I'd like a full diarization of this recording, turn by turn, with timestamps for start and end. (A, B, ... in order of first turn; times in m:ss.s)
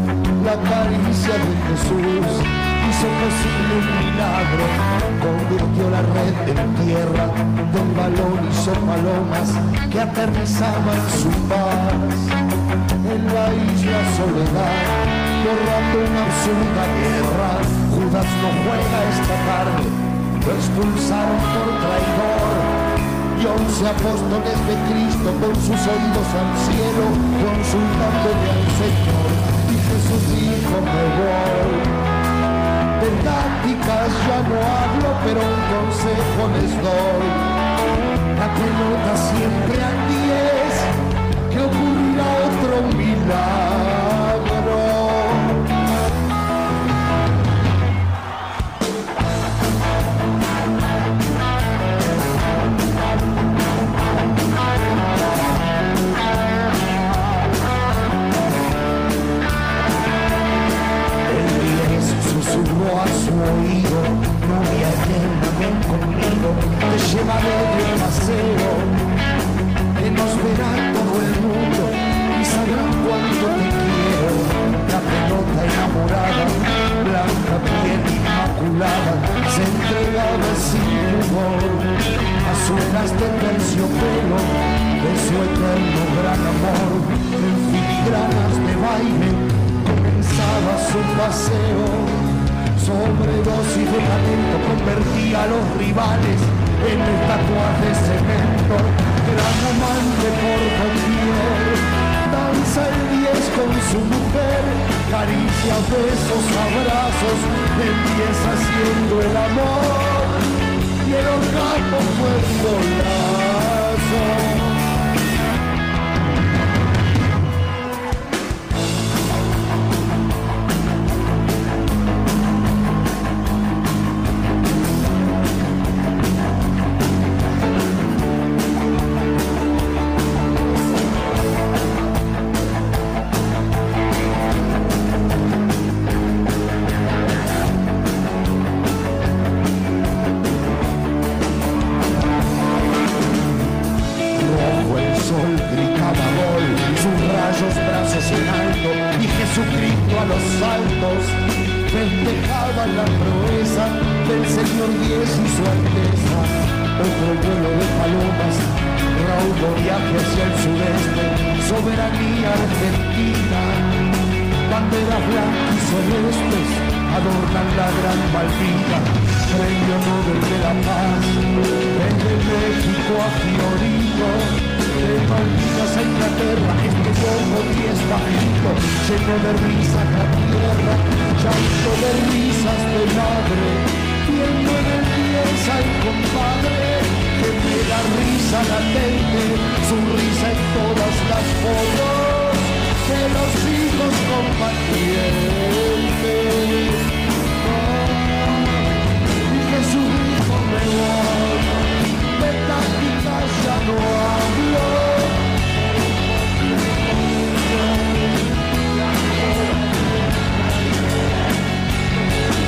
0:00.4-0:12.3 A
0:13.0-0:22.7 A
0:23.3-0:32.0 A
0:33.0-0:37.5 A
0:38.3-0:40.9 A
0:41.5-0:45.6 A
1:01.3-1:09.0 A
1:10.0-1:21.9 A
1:22.4-1:32.2 A
1:32.8-1:50.4 A
1:51.0-1:54.8 A
2:24.4-2:31.4 A
2:31.9-2:44.0 A
2:44.7-2:51.4 A
2:51.9-3:17.1 A
3:17.6-3:18.8 A
3:19.5-3:25.4 A